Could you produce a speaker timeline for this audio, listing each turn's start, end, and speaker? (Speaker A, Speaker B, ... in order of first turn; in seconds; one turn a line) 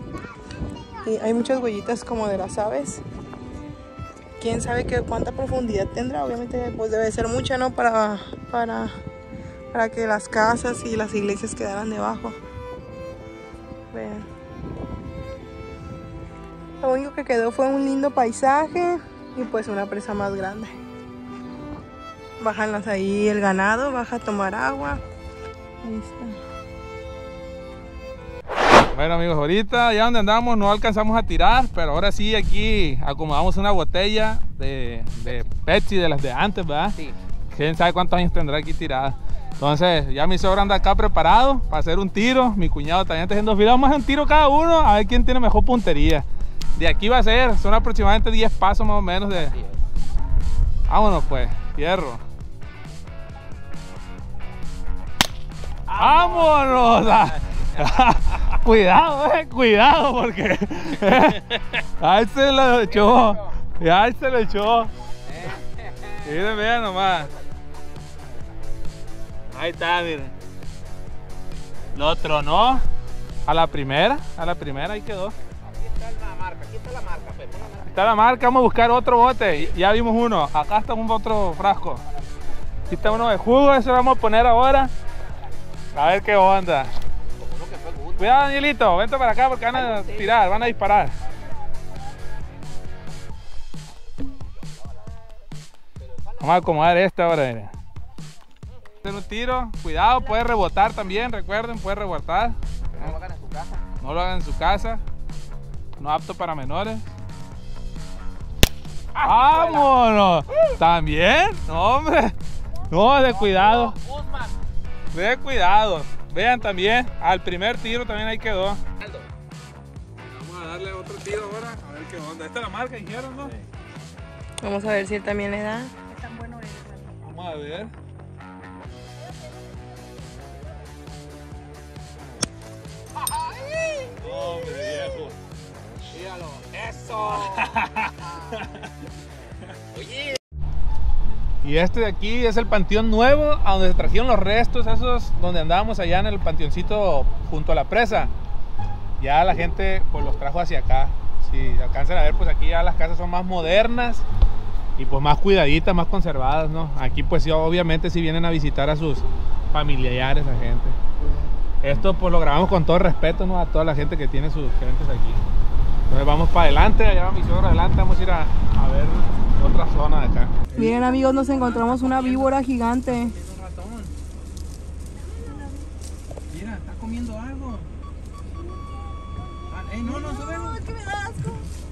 Speaker A: 1.0-3.0
Speaker A: 4.4-8.9
Speaker A: 9.7-12.4
Speaker A: 13.9-14.2
Speaker A: 16.8-20.7
Speaker A: 22.4-25.0
Speaker A: 25.8-26.4
Speaker B: 28.9-37.0
Speaker B: 37.5-49.5
Speaker C: 49.3-49.9
Speaker B: 50.9-52.2
Speaker C: 55.9-58.1
Speaker B: 55.9-64.9
Speaker C: 62.7-63.6
Speaker C: 65.2-68.7
Speaker B: 66.2-67.3
Speaker B: 69.5-70.3
Speaker C: 71.7-72.0
Speaker B: 71.9-72.8
Speaker B: 73.5-75.4
Speaker C: 75.4-78.6
Speaker B: 77.9-82.0
Speaker C: 79.4-79.8
Speaker C: 82.0-83.3
Speaker B: 82.9-84.9
Speaker B: 85.9-86.9
Speaker C: 87.2-88.5
Speaker B: 88.2-91.2
Speaker C: 89.7-91.6
Speaker C: 94.1-95.3
Speaker C: 96.0-96.9
Speaker B: 96.4-97.7
Speaker B: 99.0-103.1
Speaker C: 102.9-103.9
Speaker B: 104.0-105.0
Speaker B: 106.0-107.1
Speaker C: 109.1-109.9
Speaker B: 109.2-112.3
Speaker B: 112.9-113.9
Speaker C: 113.2-114.6
Speaker B: 115.1-118.8
Speaker C: 119.0-119.3
Speaker B: 120.2-123.5
Speaker A: 124.6-127.1
Speaker B: 127.2-127.9
Speaker C: 133.1-134.5
Speaker B: 134.1-135.4
Speaker C: 136.0-138.7
Speaker B: 137.3-138.9
Speaker C: 139.9-140.4
Speaker B: 141.6-148.3
Speaker B: 149.2-154.2
Speaker B: 155.0-161.0
Speaker B: 161.8-165.4
Speaker B: 166.1-171.0
Speaker A: 170.7-173.4
Speaker D: 171.6-171.9
Speaker B: 172.0-172.4
Speaker D: 173.1-174.1
Speaker A: 175.3-175.9
Speaker D: 176.5-177.9
Speaker D: 179.7-180.8
Speaker A: 179.9-181.7